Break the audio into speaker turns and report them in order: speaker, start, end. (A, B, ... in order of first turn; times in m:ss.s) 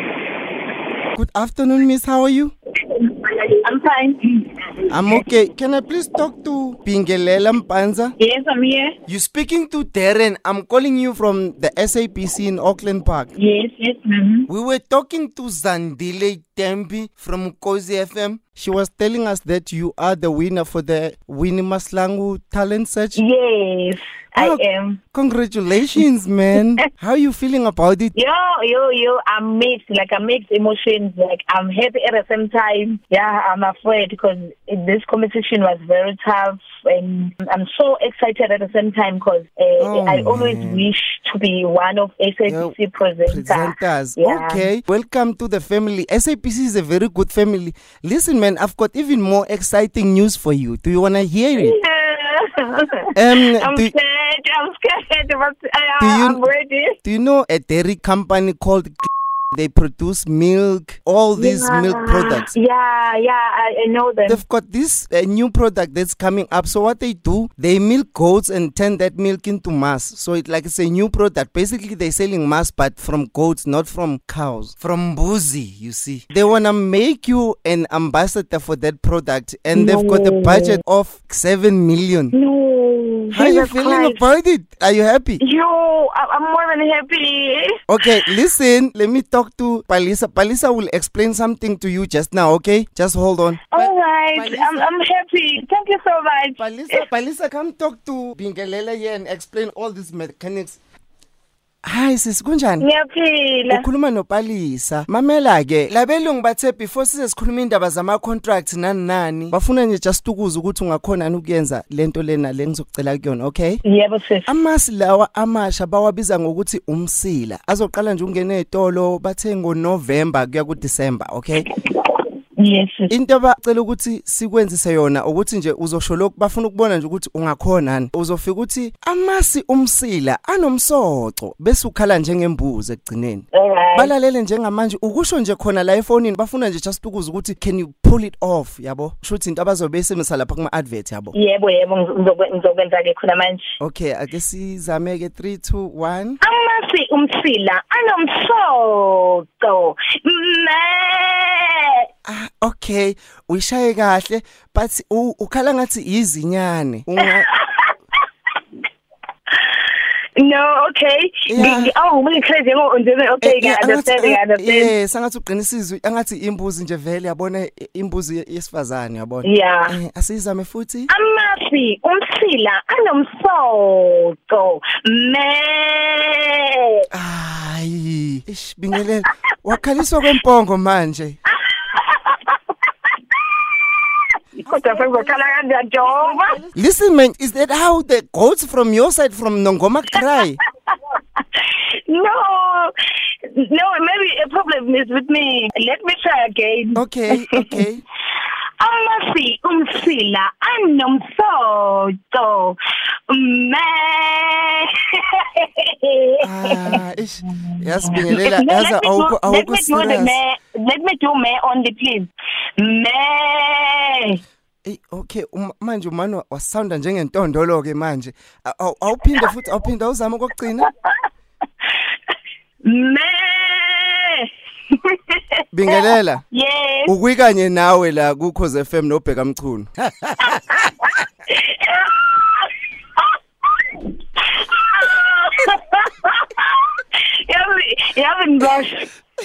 0:01.2-0:02.5 A
0:02.9-0:05.2 B
0:04.9-0:08.1 A
0:08.2-0:09.0 B
0:09.1-0:13.3 A
0:13.4-0:14.5 B
0:14.5-0:23.2 A
0:23.2-0:25.0 B
0:24.4-0:24.6 A
0:25.1-0:28.1 A
0:28.2-0:44.7 B
0:39.8-0:40.8 A
0:42.5-0:42.8 A
0:43.3-0:51.8 A
0:51.6-0:57.0 B
0:53.2-0:53.9 A
0:56.0-0:56.4 A
0:57.0-1:02.5 A
1:01.4-1:04.4 B
1:04.3-1:22.3 A
1:19.7-1:20.8 B
1:22.3-1:24.2 B
1:23.3-1:25.4 A
1:25.4-1:27.8 B
1:27.9-1:34.9 A
1:33.7-1:37.1 B
1:36.6-1:40.8 A
1:41.8-1:42.9 A
1:42.8-1:43.9 B
1:43.7-1:53.8 A
1:53.8-1:54.5 B
1:54.5-2:01.7 A
2:02.6-2:03.1 B
2:03.1-2:21.3 A
2:13.5-2:14.1 B
2:21.3-2:23.7 B
2:23.8-2:26.4 A
2:26.4-2:32.1 B
2:32.3-2:37.5 A
2:37.2-2:37.9 B
2:39.6-2:44.9 B
2:41.5-2:41.9 A
2:43.4-2:51.1 A
2:49.4-2:50.0 B
2:51.1-2:57.1 B
2:57.1-3:01.4 A
3:01.5-3:06.6 B
3:04.7-3:10.6 A
3:10.9-3:12.9 B
3:13.4-3:17.8 B
3:17.0-3:18.0 A
3:18.8-3:22.8 B
3:23.3-3:34.4 B
3:26.4-3:30.4 A
3:34.8-3:40.9 A
3:42.8-3:47.1 B
3:45.7-3:46.4 A
3:47.1-3:50.8 A
3:50.4-3:59.1 B